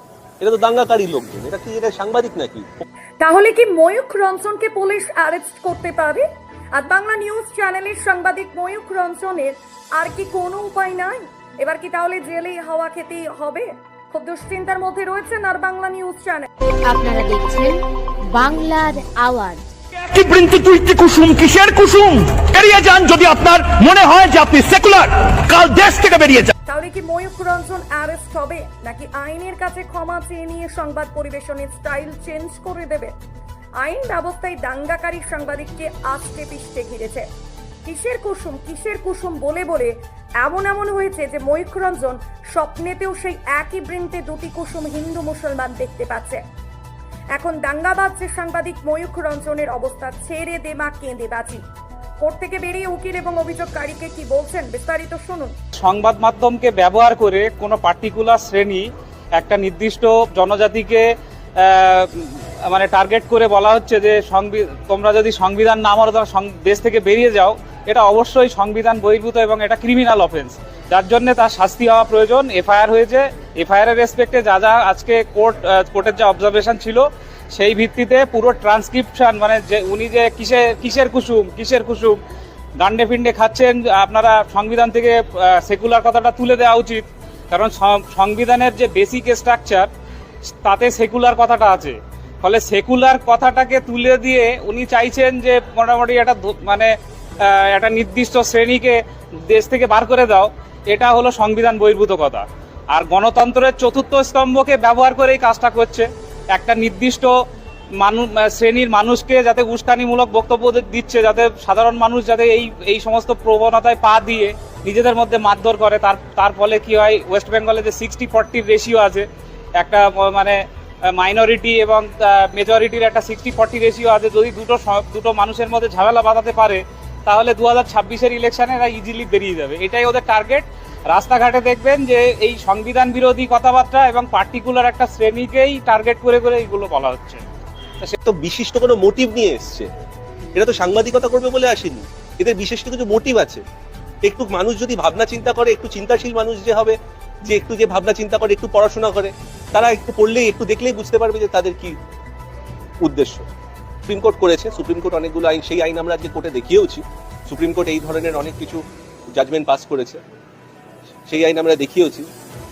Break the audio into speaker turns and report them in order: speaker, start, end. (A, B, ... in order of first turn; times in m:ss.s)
0:00.4-0:02.8 A
0:03.2-0:06.2 B
0:06.8-0:16.5 B
0:16.8-0:19.7 C
0:19.9-0:26.5 D
0:26.7-0:33.1 B
0:33.8-0:37.2 B
0:37.9-0:46.4 B
0:47.4-0:51.6 B
0:52.2-0:55.5 B
0:55.8-1:22.2 E
1:22.8-1:29.9 E
1:30.6-1:47.3 E
1:48.0-2:17.4 E
2:18.2-2:19.9 A
2:20.6-2:23.6 A
2:24.2-2:32.0 A
2:33.0-2:33.4 A
2:34.1-2:38.8 A
2:39.3-2:40.2 A
2:41.3-2:42.3 A